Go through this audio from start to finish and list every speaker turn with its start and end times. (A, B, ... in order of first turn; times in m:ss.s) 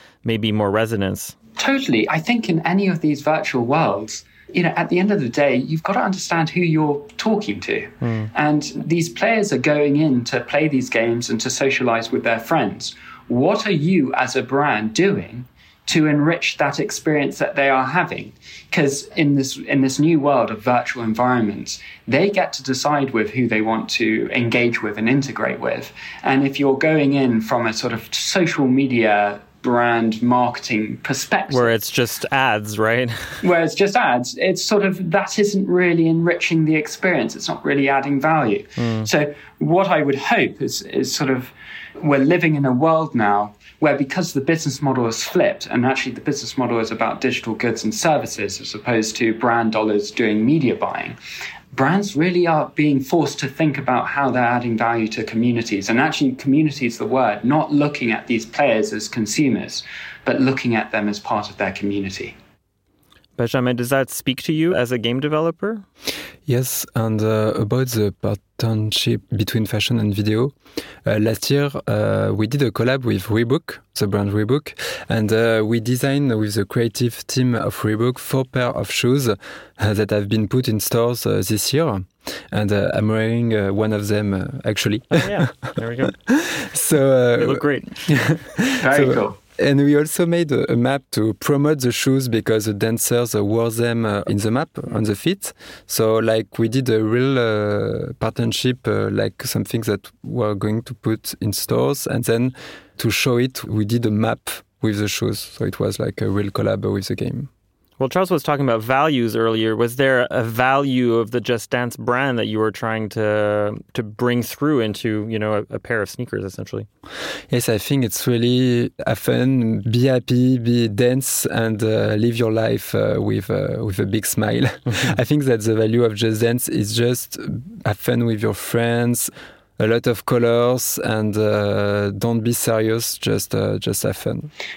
0:00.2-0:01.4 A
0:01.6-0:31.7 B
0:08.0-0:08.3 A
0:31.5-0:33.4 A
0:33.4-0:51.2 B
0:38.8-0:39.1 A
0:51.7-1:02.4 B
1:03.4-1:05.8 A
1:06.5-1:10.5 C
1:11.0-1:25.4 C
1:25.1-1:26.2 A
1:26.3-1:47.5 C
1:27.4-1:28.4 A
1:28.8-1:29.4 B
1:48.0-1:56.9 A
1:57.5-2:14.5 C